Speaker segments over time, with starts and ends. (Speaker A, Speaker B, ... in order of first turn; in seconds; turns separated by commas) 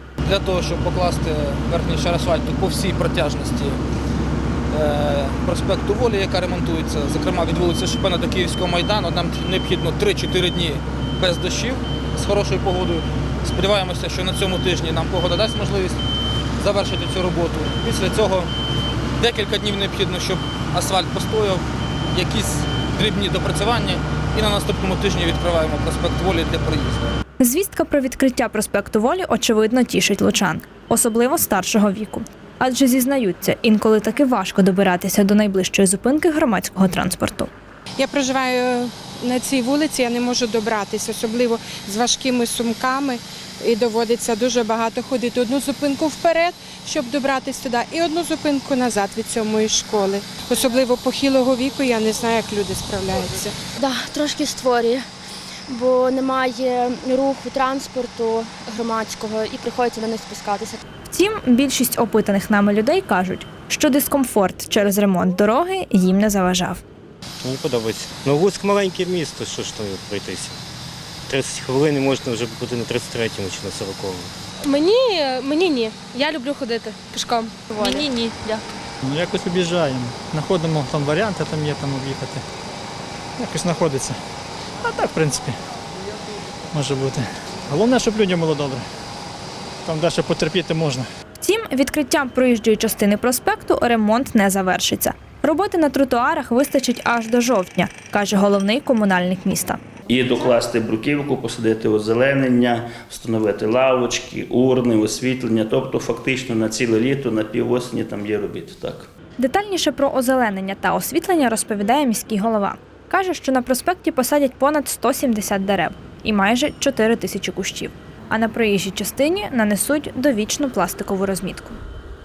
Speaker A: 0.3-3.8, Speaker A: 4.7-16.0, Speaker A: 16.6-18.5, Speaker A: 19.2-21.6, Speaker A: 22.1-27.1, Speaker B: 27.4-37.5, Speaker C: 38.0-53.5, Speaker D: 53.8-55.0, Speaker D: 55.7-60.8, Speaker B: 61.1-66.8, Speaker E: 67.4-70.6, Speaker E: 71.3-74.3, Speaker F: 74.6-78.6, Speaker G: 79.0-82.4, Speaker G: 83.4-84.2, Speaker G: 84.8-85.5, Speaker G: 86.7-88.8, Speaker G: 89.8-91.1, Speaker B: 91.4-99.8, Speaker H: 100.1-109.1, Speaker B: 109.4-121.8